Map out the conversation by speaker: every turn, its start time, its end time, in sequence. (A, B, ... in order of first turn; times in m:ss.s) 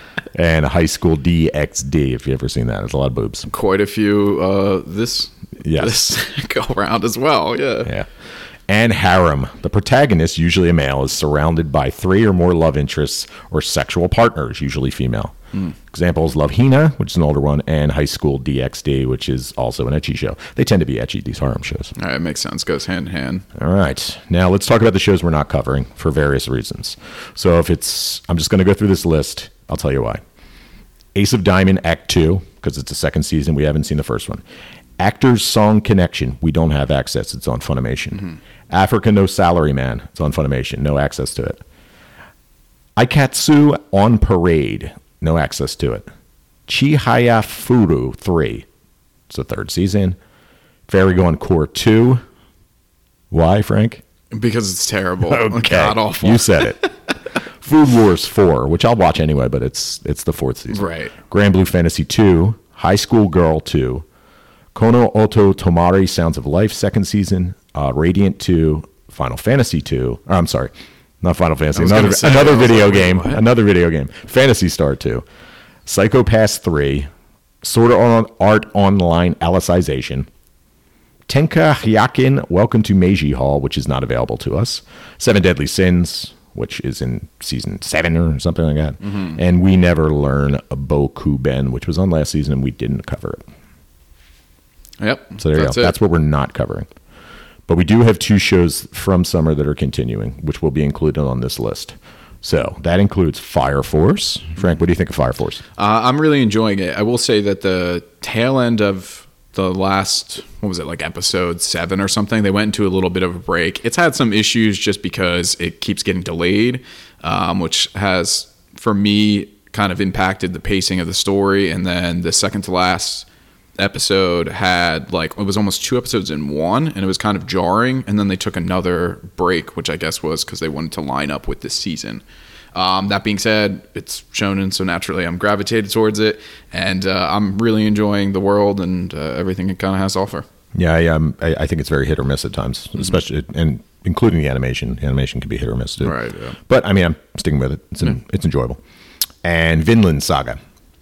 0:00.3-0:03.5 A
0:03.5-0:07.9 B
0:05.6-0:06.0 A
0:08.7-0:21.9 A
0:22.0-0:23.4 B
0:23.5-0:30.2 A
0:31.1-0:34.4 A
0:35.0-0:41.6 A
0:43.0-0:46.1 A
0:46.7-0:48.6 A
0:49.3-0:50.2 A
0:50.9-0:52.2 A
0:53.3-0:54.0 A
0:54.3-0:56.9 B
0:55.2-0:56.8 A
0:57.6-1:04.0 A
1:00.7-1:01.1 B
1:04.7-1:15.2 A
1:11.7-1:13.4 B
1:15.8-1:17.1 A
1:17.6-1:20.3 A
1:21.3-1:33.4 A
1:29.0-1:29.4 B
1:35.0-1:35.9 B
1:35.4-1:36.9 A
1:37.7-1:45.6 A
1:45.8-2:03.2 B
2:03.8-2:12.2 B
2:12.7-2:20.4 B
2:20.7-2:28.8 A
2:26.0-2:26.6 B
2:29.4-2:30.6 A